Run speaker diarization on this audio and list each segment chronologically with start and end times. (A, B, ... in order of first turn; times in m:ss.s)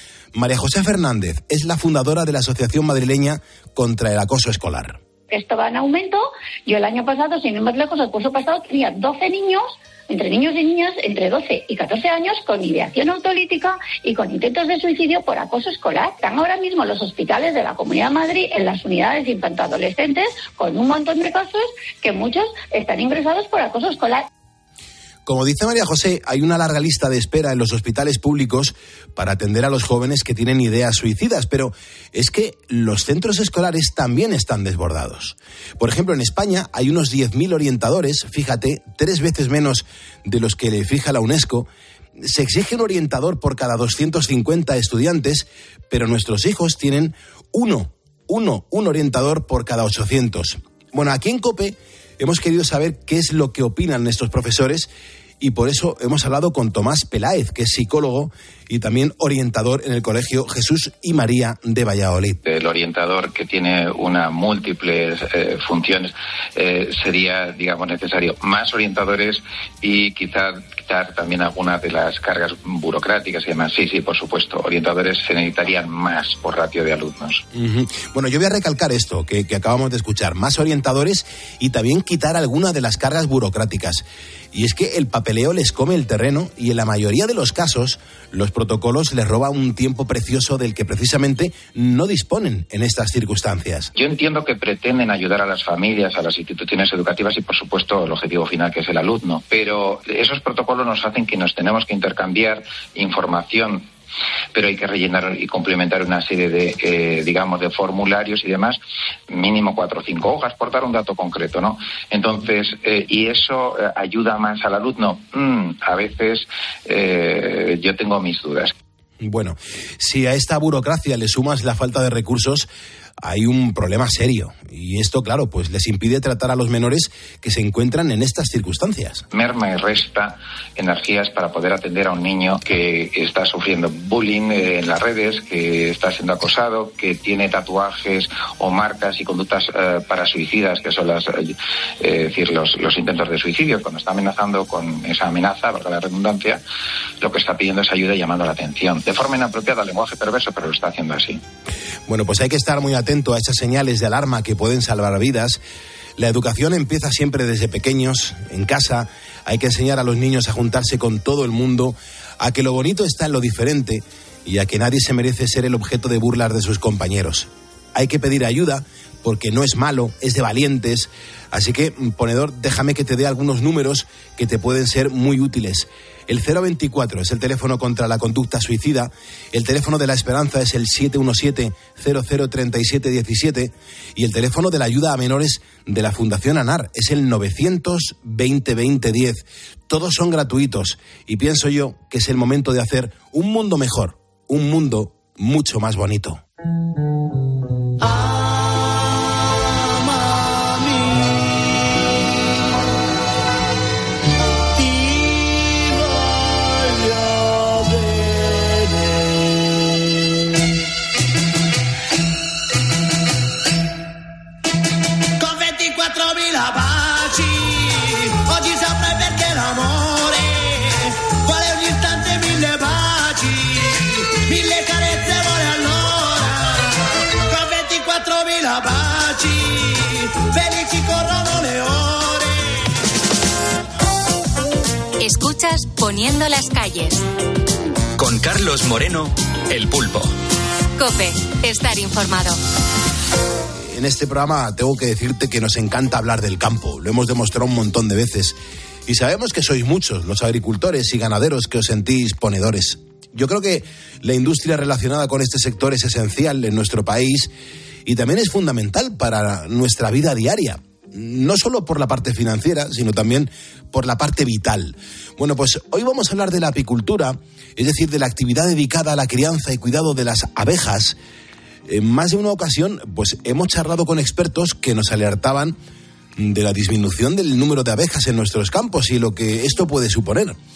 0:00.3-0:05.0 A
0:05.3-0:24.3 B
0:25.2-0:41.7 A
0:42.2-0:54.9 A
0:55.4-1:02.4 A
1:02.4-1:17.4 C
1:17.5-1:33.9 A
1:33.9-1:43.9 C
1:44.5-1:48.8 C
1:49.3-1:58.7 C
1:59.2-2:02.7 A
2:03.2-2:09.2 A
2:09.3-2:26.6 C
2:27.2-2:31.4 C
2:32.1-2:35.6 A
2:36.2-3:16.4 A
3:25.4-3:25.8 D
3:27.6-3:28.8 D
3:35.4-3:52.8 D
3:55.2-3:57.2 E
3:58.2-4:00.3 D
4:01.0-4:02.6 E
4:03.8-4:17.5 A
4:18.0-4:31.2 A
4:31.9-4:35.8 A
4:36.4-4:40.6 A